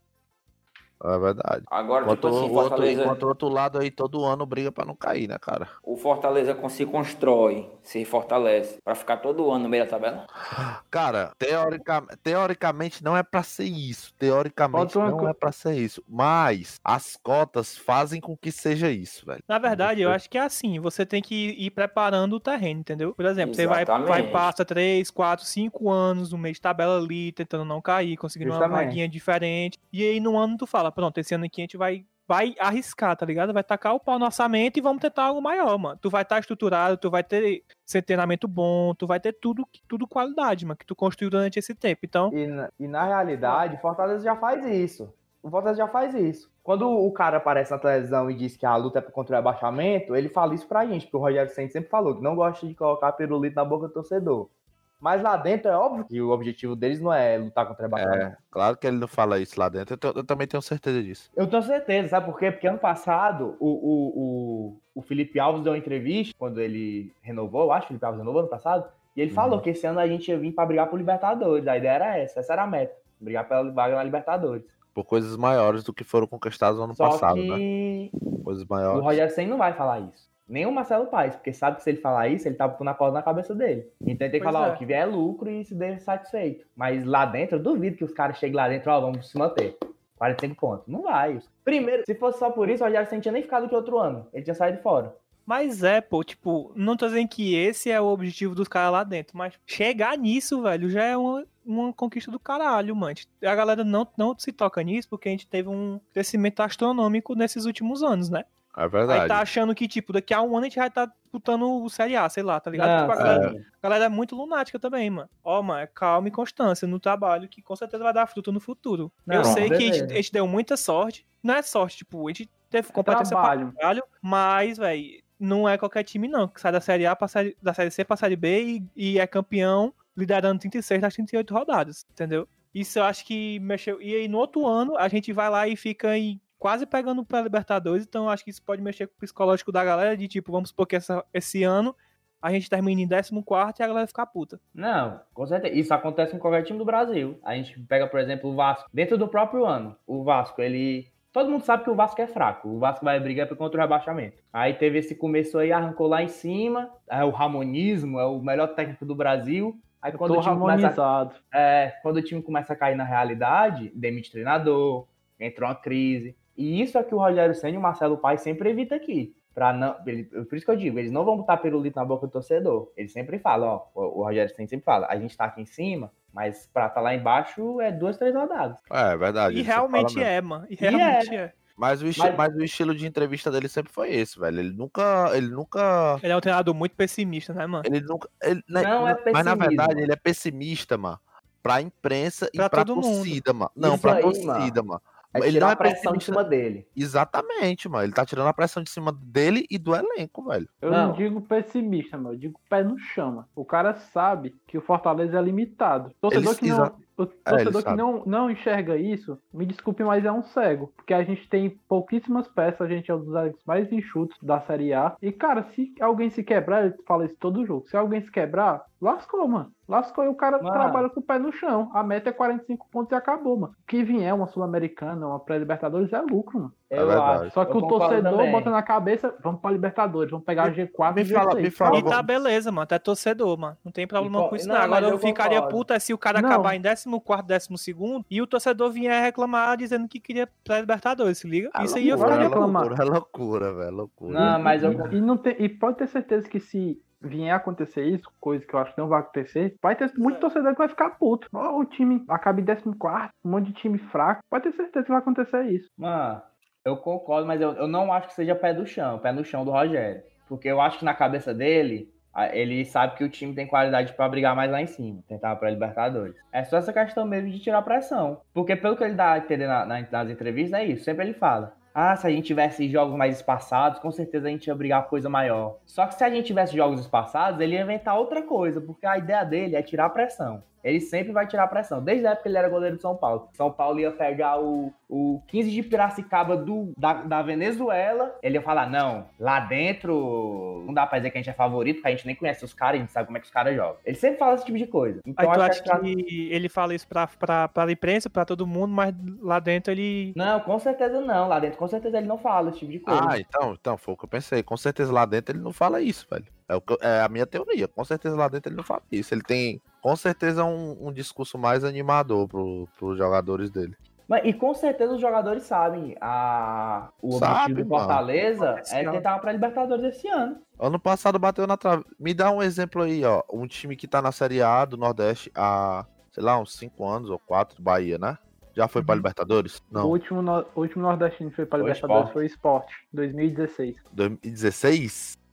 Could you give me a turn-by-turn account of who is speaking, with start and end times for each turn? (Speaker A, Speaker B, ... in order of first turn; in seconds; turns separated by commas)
Speaker A: 1.0-5.7, Speaker B: 1.7-3.2, Speaker B: 5.8-10.3, Speaker A: 10.5-20.2, Speaker C: 14.7-15.3, Speaker D: 19.5-42.4, Speaker B: 23.4-24.5, Speaker E: 28.4-29.0, Speaker E: 42.3-58.3, Speaker A: 58.0-61.3, Speaker E: 61.4-74.7, Speaker A: 69.3-69.6, Speaker A: 75.0-77.6, Speaker E: 76.9-78.1, Speaker A: 78.5-79.2, Speaker E: 78.9-95.2, Speaker D: 84.4-84.8, Speaker D: 95.5-108.5, Speaker A: 108.8-109.5, Speaker D: 109.1-144.6, Speaker E: 112.8-113.7, Speaker A: 113.2-113.5, Speaker E: 119.3-120.2, Speaker B: 119.4-119.7, Speaker C: 122.9-123.8, Speaker E: 144.8-178.8, Speaker C: 160.1-161.4, Speaker A: 178.9-180.3, Speaker D: 179.5-181.5, Speaker E: 180.8-181.4, Speaker A: 181.8-186.2, Speaker E: 182.2-182.4, Speaker D: 186.2-187.9, Speaker A: 187.8-196.4, Speaker E: 188.8-190.1, Speaker D: 192.6-193.4, Speaker E: 193.8-194.8, Speaker E: 195.3-196.9, Speaker A: 197.0-200.8, Speaker C: 200.8-226.9, Speaker E: 200.9-201.2, Speaker A: 206.3-208.0, Speaker E: 220.6-221.1, Speaker E: 226.9-228.7, Speaker A: 226.9-227.5, Speaker C: 227.5-232.2, Speaker A: 230.6-232.2, Speaker D: 231.8-242.6, Speaker E: 234.2-235.8, Speaker C: 236.3-236.8, Speaker A: 241.7-245.2, Speaker C: 242.1-242.9, Speaker E: 244.3-245.2, Speaker C: 244.4-255.8, Speaker D: 250.2-250.5, Speaker E: 256.0-296.1, Speaker D: 295.4-300.4, Speaker E: 300.4-303.4, Speaker A: 303.1-314.0, Speaker E: 314.3-320.6, Speaker A: 317.3-318.2, Speaker D: 318.6-319.2, Speaker A: 320.8-330.2, Speaker D: 329.0-329.2, Speaker C: 329.9-334.0, Speaker E: 331.8-332.4, Speaker A: 334.1-335.4